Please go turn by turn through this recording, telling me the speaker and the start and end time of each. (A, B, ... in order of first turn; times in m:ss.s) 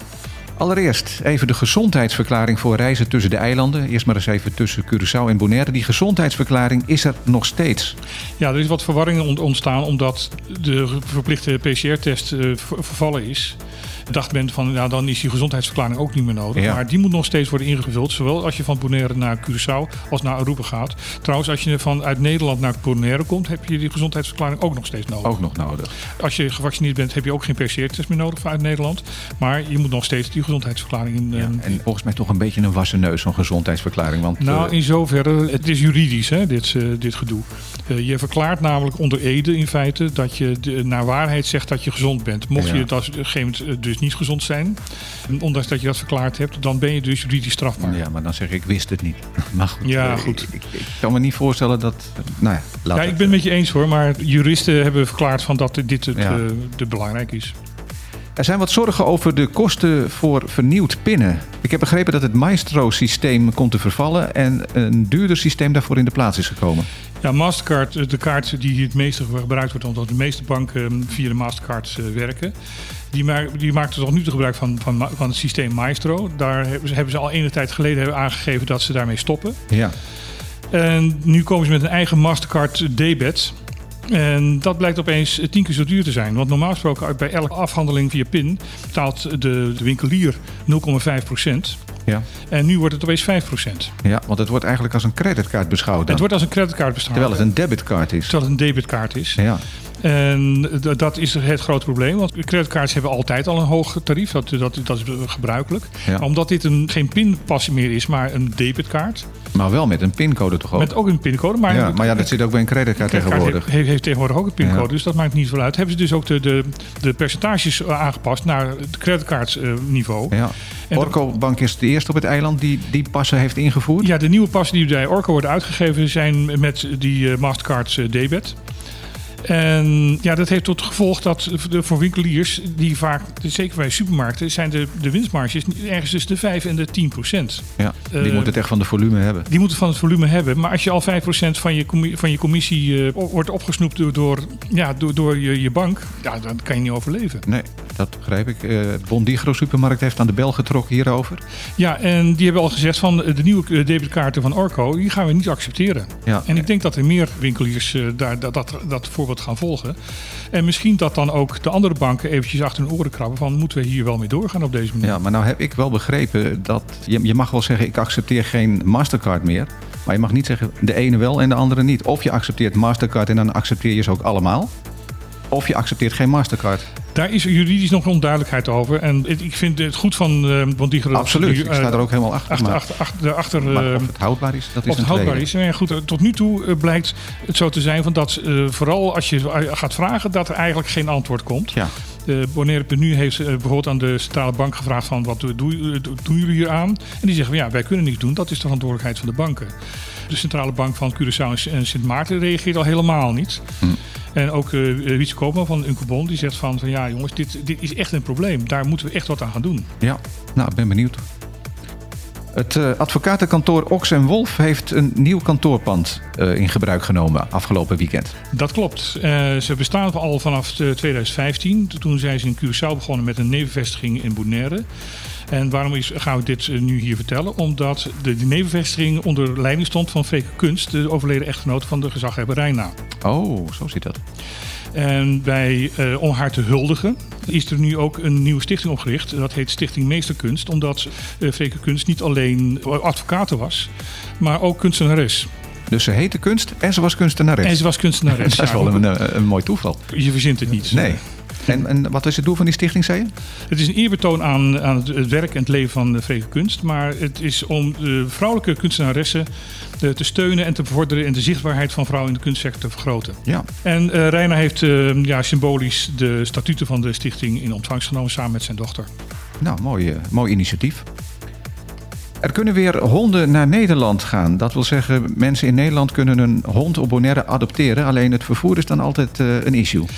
0:00.6-0:08.0 A
0:08.4-0:13.6 B
0:14.1-0:25.4 B
0:25.2-0:25.9 A
0:26.2-0:31.8 B
0:31.3-0:34.7 A
0:34.4-0:48.0 B
0:42.6-0:42.9 A
0:47.8-0:53.4 A
0:49.8-0:50.5 B
0:52.9-0:57.5 B
0:56.1-0:56.4 A
0:58.4-1:06.9 A
1:07.2-1:12.5 B
1:13.1-1:19.6 B
1:20.7-1:23.6 B
1:24.1-1:31.8 B
1:32.5-1:33.9 B
1:34.0-1:36.3 A
1:36.1-1:37.5 B
1:37.1-1:38.3 A
1:38.3-1:39.4 B
1:39.4-1:39.6 A
1:40.0-1:49.2 B
1:49.5-1:50.9 A
1:50.8-1:52.4 B
1:51.7-1:53.7 A
1:53.0-2:00.4 B
1:54.6-1:54.9 A
2:00.3-2:04.1 A
2:04.0-2:08.6 B
2:09.4-2:18.6 B
2:17.8-2:19.5 A
2:19.5-2:27.4 B
2:27.5-2:31.4 A
2:31.8-2:40.0 B
2:36.3-2:36.6 A
2:40.5-2:45.2 B
2:45.0-2:54.7 A
2:55.5-2:56.8 A
2:57.1-3:04.1 B
3:01.1-3:02.8 A
3:03.6-3:05.4 A
3:04.8-3:19.7 B
3:20.3-3:23.7 B
3:24.3-3:29.9 B
3:30.0-3:31.2 A
3:32.5-3:38.3 A
3:38.5-3:44.8 B
3:45.5-3:52.9 B
3:53.2-3:54.2 A
3:54.9-4:05.5 B
4:05.9-4:10.0 A
4:07.6-4:09.1 B
4:10.1-4:11.2 B
4:10.9-4:13.3 A
4:13.7-4:19.5 B
4:20.0-4:29.1 B
4:29.6-4:31.0 A
4:32.4-4:40.1 A